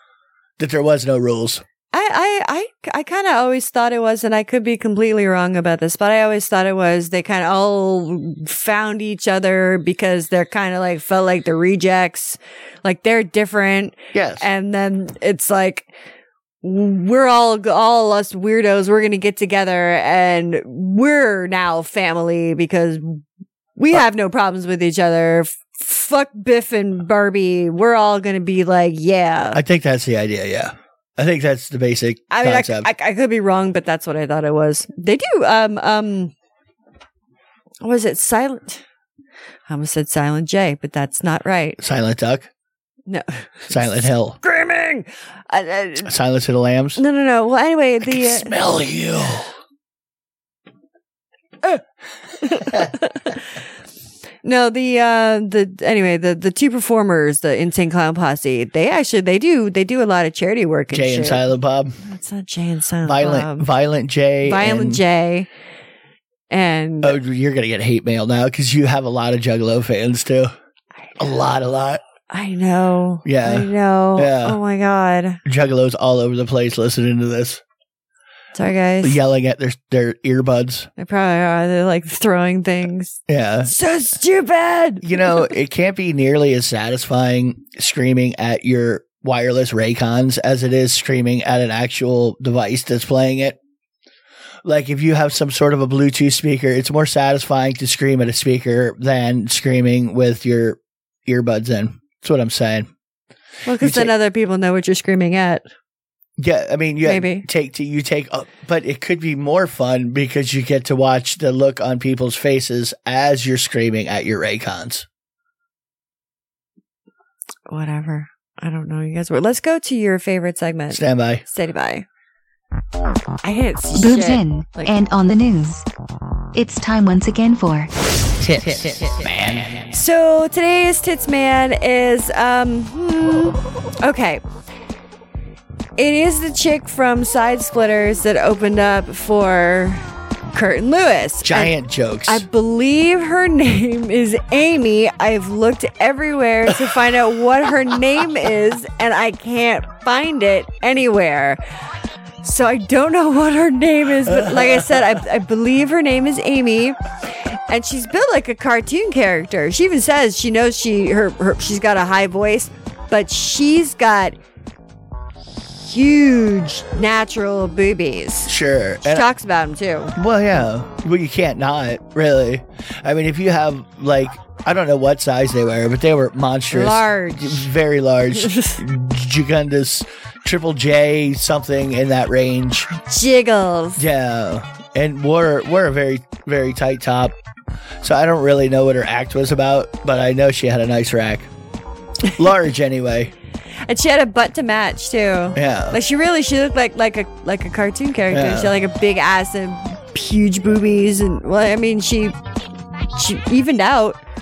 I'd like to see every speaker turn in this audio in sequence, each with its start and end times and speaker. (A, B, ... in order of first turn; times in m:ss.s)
0:00.6-0:01.6 A
0:01.9-0:15.9 B
0:14.1-0:14.5 A
0:16.6-0:23.2 B
0:23.8-0:29.6 B
0:29.5-0:32.9 A
0:32.3-0:36.3 B
0:37.8-0:38.8 B
0:39.7-0:41.8 B
0:41.8-0:42.5 A
0:43.1-0:46.1 B
0:43.7-0:44.4 A
0:46.0-0:47.0 A
0:47.0-0:48.5 B
0:48.0-0:49.5 A
0:52.4-0:53.4 B
0:54.4-1:01.4 B
1:00.9-1:02.0 A
1:02.0-1:03.7 B
1:03.0-1:05.0 A
1:04.4-1:05.5 B
1:06.5-1:07.2 B
1:07.0-1:10.5 A
1:11.2-1:12.0 A
1:12.3-1:15.4 B
1:13.2-1:14.6 A
1:15.4-1:17.6 A
1:18.5-1:19.2 B
1:19.0-1:20.9 A
1:21.0-1:25.5 B
1:23.3-1:23.7 A
1:25.0-1:33.6 A
1:34.6-1:42.9 A
1:43.6-1:45.7 B
1:43.8-1:44.1 A
1:46.4-1:55.0 A
1:47.0-1:47.5 B
1:57.7-2:02.0 B
2:00.9-2:01.4 A
2:03.4-2:04.9 B
2:03.9-2:05.8 C
2:06.5-2:07.9 C
2:09.0-2:09.9 A
2:09.9-2:14.4 B
2:16.0-2:20.0 B
2:20.5-2:21.7 B
2:21.4-2:22.4 A
2:22.2-2:31.6 B
2:32.4-2:44.4 B
2:45.7-2:50.1 B
2:48.4-2:49.2 A
2:50.2-3:02.9 A
2:56.7-2:57.7 B
2:58.3-2:58.8 B
3:03.0-3:04.0 B
3:04.0-3:07.3 A
3:08.0-3:11.5 A
3:12.3-3:13.3 A
3:13.8-3:22.4 B
3:15.6-3:16.0 A
3:18.3-3:18.7 A
3:23.1-3:24.2 B